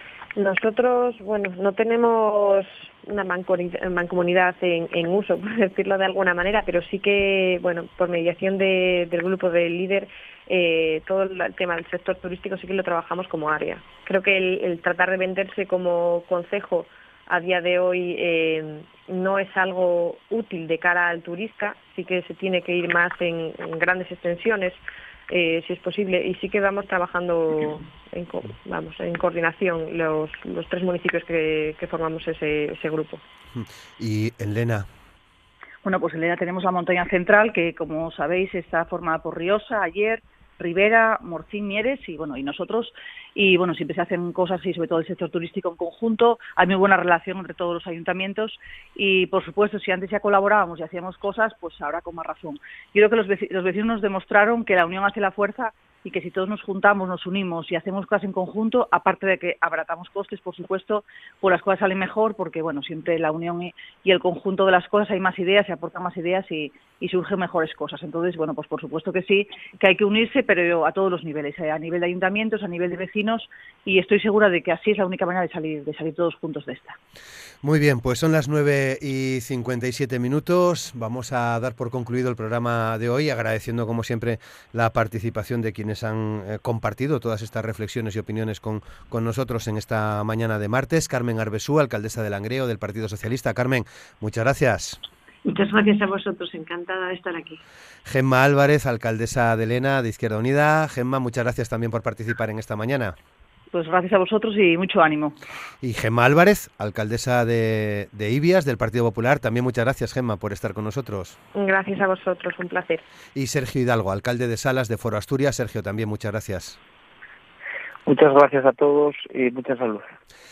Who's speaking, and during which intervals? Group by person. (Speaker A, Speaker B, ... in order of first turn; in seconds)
Speaker A: 0.4-33.2, 111.5-113.0
Speaker B: 33.5-34.9, 77.6-95.0, 98.1-103.2, 105.8-111.4, 113.4-116.8
Speaker C: 35.8-77.0, 103.7-105.4
Speaker D: 95.5-97.6
Speaker E: 118.1-120.0